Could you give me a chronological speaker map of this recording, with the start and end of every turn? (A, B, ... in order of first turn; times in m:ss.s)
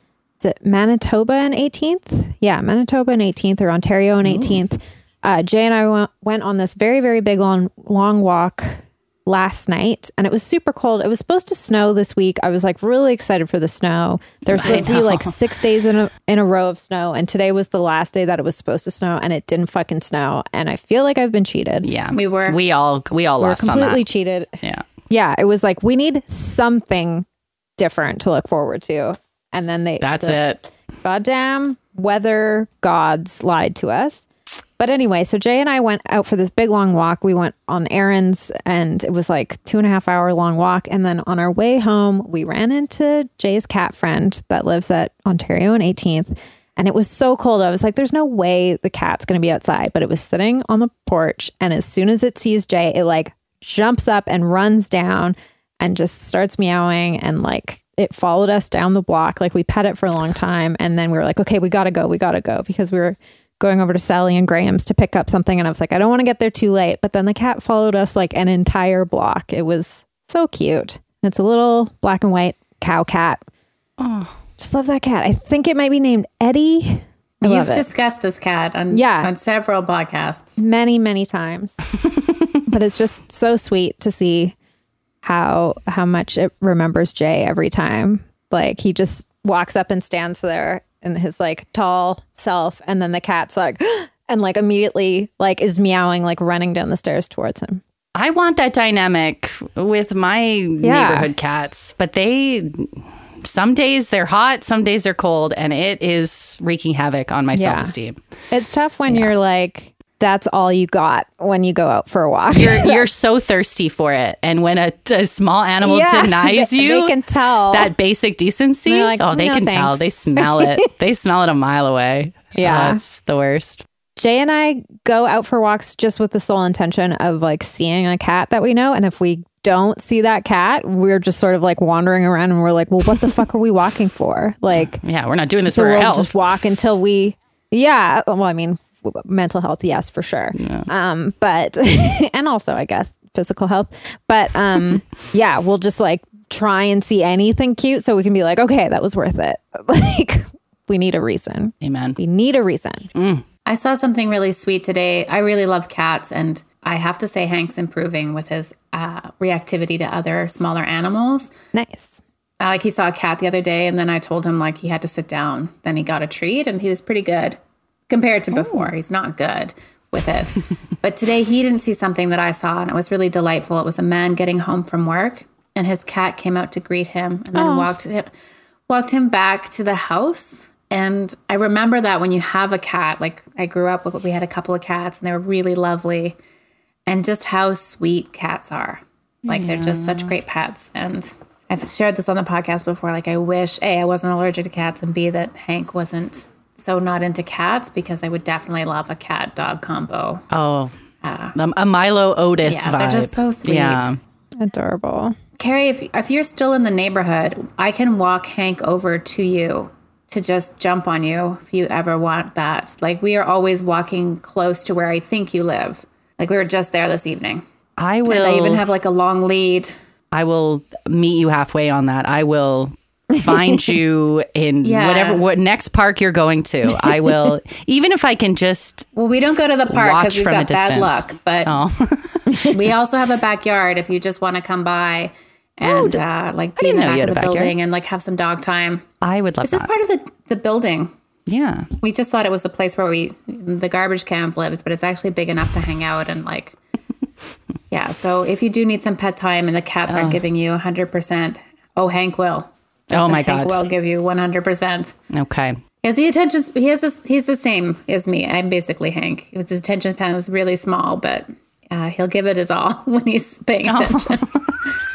0:00.4-0:21.9 A
0:04.2-0:04.6 B
0:14.5-0:15.4 B
0:21.8-0:24.0 B
0:22.1-0:22.6 C
0:23.4-0:27.2 A
0:27.8-0:30.4 A
0:30.0-0:30.6 B
0:31.0-0:34.2 A
0:34.8-1:13.4 A
1:14.0-1:14.4 B
1:14.6-1:17.8 A
1:17.4-1:20.6 C
1:18.9-1:19.3 A
1:20.6-1:21.8 A
1:22.7-1:24.5 A
1:25.2-1:37.8 A
1:38.2-1:48.2 B
1:40.8-1:41.3 A
1:47.5-1:47.9 A
1:48.5-1:53.1 A
1:52.5-1:57.2 B
1:55.8-1:57.9 A
1:57.7-2:03.8 B
1:58.9-2:00.9 A
2:02.5-2:03.0 A
2:04.2-2:15.0 A
2:14.8-2:16.3 B
2:15.7-2:33.1 A
2:20.6-2:20.9 B
2:31.8-2:32.2 B
2:33.1-2:33.4 B
2:33.6-2:41.5 C
2:41.7-2:42.2 A
2:42.6-2:47.6 C
2:48.1-2:58.3 C
2:48.5-2:48.9 A
2:57.5-2:57.9 A
2:58.9-3:06.4 C
3:07.1-3:20.4 C
3:09.5-3:10.3 B
3:20.5-3:20.9 B
3:21.2-3:21.6 C
3:21.6-3:24.2 B
3:22.6-3:24.1 C
3:24.6-3:25.4 A
3:25.6-3:37.6 C
3:38.0-3:38.8 B
3:38.2-3:40.0 C
3:40.3-3:49.1 B
3:44.8-3:45.4 C
3:49.1-3:51.7 C
3:49.9-3:52.8 B
3:52.7-3:59.0 C
3:55.8-3:56.2 B
3:56.8-3:57.7 B
3:59.2-3:59.9 B
3:59.6-4:01.1 C
4:01.5-4:01.9 B
4:02.0-4:06.8 C
4:07.9-4:15.2 C
4:10.1-4:10.4 B
4:13.1-4:13.8 B
4:15.3-4:15.8 B
4:16.0-4:24.5 C
4:23.9-4:24.7 B